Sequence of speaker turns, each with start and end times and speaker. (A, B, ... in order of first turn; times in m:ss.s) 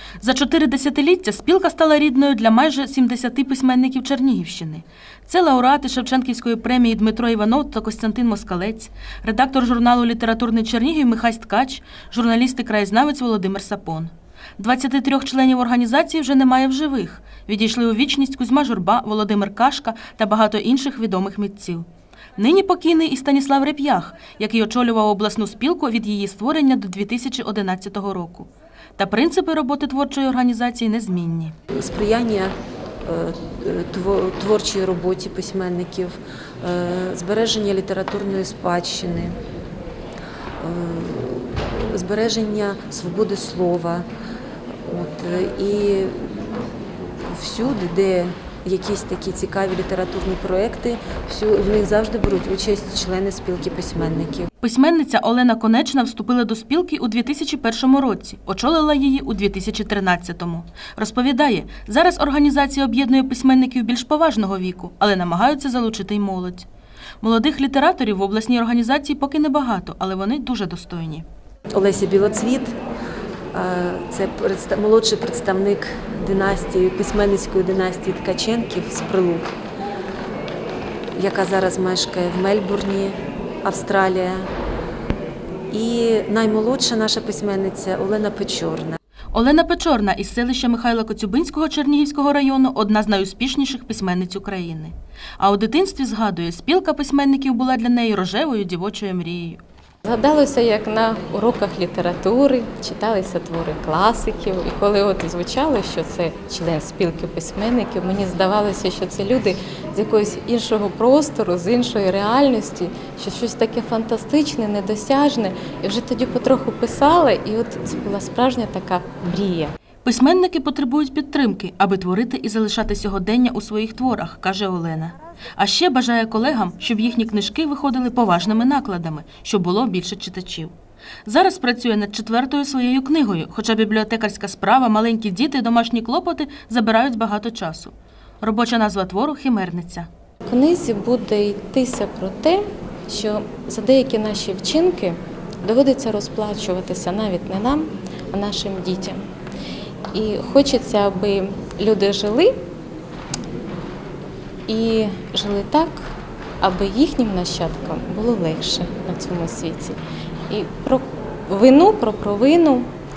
0:00.2-0:21.8 A
0:22.4-0:31.5 A
0:31.7-0:32.5 B
0:33.0-0:39.4 B
0:40.6-0:44.0 B
0:44.8-0:46.6 B
0:47.2-0:54.5 B
0:54.6-1:06.7 A
1:07.2-1:11.2 A
1:11.7-1:12.8 B
1:13.5-1:19.5 B
1:21.1-1:24.5 B
1:25.7-1:29.0 B
1:29.3-1:39.6 A
1:40.0-1:59.7 C
2:00.0-2:10.7 A
2:11.2-2:20.1 A
2:20.5-2:29.2 C
2:30.1-2:32.5 C
2:34.7-2:42.9 C